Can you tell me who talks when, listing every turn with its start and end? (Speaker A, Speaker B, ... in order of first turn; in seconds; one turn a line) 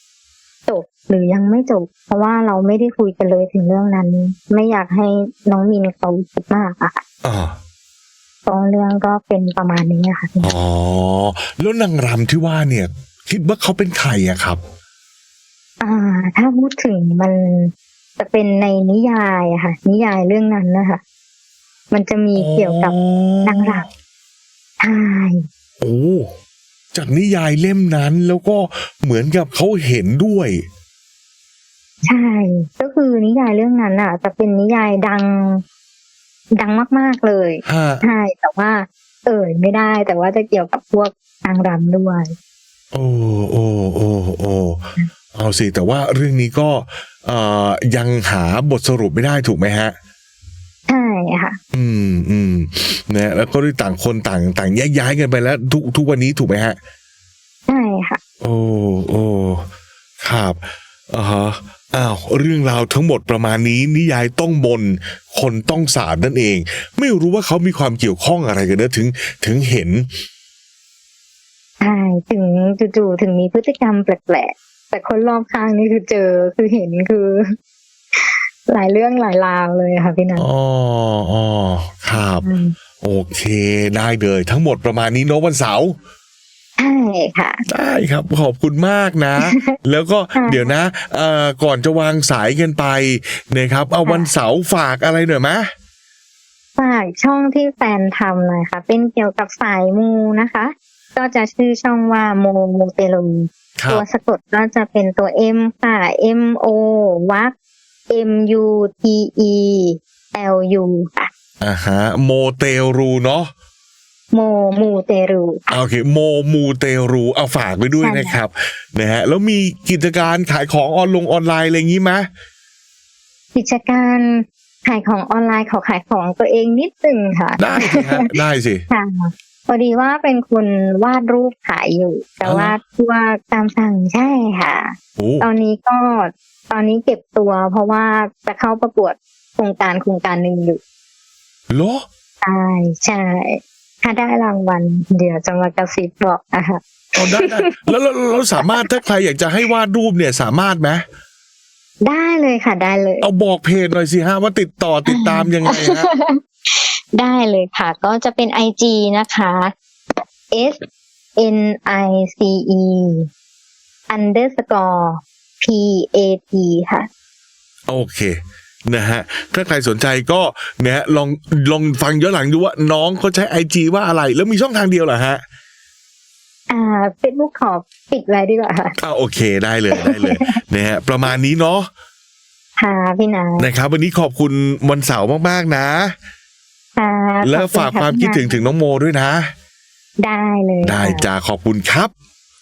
Speaker A: 0.7-7.0
Speaker B: 7.2-7.5
Speaker A: 8.4-10.5
Speaker B: 10.4-14.6
Speaker A: 15.8-21.0
Speaker A: 21.9-23.8
Speaker B: 22.4-23.9
Speaker A: 24.8-25.4
Speaker B: 25.8-26.3
Speaker B: 26.9-30.6
Speaker A: 32.0-35.6
Speaker A: 36.5-42.3
Speaker B: 37.6-38.0
Speaker B: 42.9-44.8
Speaker B: 45.3-49.9
Speaker A: 50.9-51.6
Speaker B: 51.7-56.8
Speaker A: 57.7-58.2
Speaker B: 58.4-59.7
Speaker B: 60.2-70.1
Speaker A: 71.8-77.5
Speaker A: 78.1-80.5
Speaker B: 80.4-82.5
Speaker A: 82.4-82.8
Speaker B: 83.0-86.0
Speaker A: 86.8-87.6
Speaker B: 87.7-95.7
Speaker A: 89.4-89.7
Speaker A: 90.3-90.7
Speaker A: 94.0-94.3
Speaker A: 96.8-107.5
Speaker B: 103.8-104.0
Speaker A: 108.1-111.3
Speaker B: 111.6-113.5
Speaker A: 114.3-115.7
Speaker B: 115.7-122.3
Speaker A: 118.0-118.4
Speaker A: 123.5-128.2
Speaker B: 127.6-128.8
Speaker A: 128.9-140.8
Speaker B: 132.4-132.7
Speaker B: 135.2-135.4
Speaker B: 141.7-142.0
Speaker A: 142.4-147.9
Speaker B: 147.2-151.0
Speaker A: 148.6-149.0
Speaker A: 152.0-153.3
Speaker B: 153.2-156.1
Speaker A: 155.1-159.7
Speaker A: 160.5-160.8
Speaker A: 161.3-163.3
Speaker A: 164.1-167.1
Speaker B: 167.9-168.3
Speaker B: 168.8-175.4
Speaker A: 176.7-178.9
Speaker B: 179.0-181.9
Speaker A: 179.9-180.5
Speaker A: 182.8-183.7
Speaker B: 183.6-186.1
Speaker A: 186.9-188.6
Speaker B: 187.4-189.5
Speaker A: 190.2-191.2
Speaker B: 190.8-192.1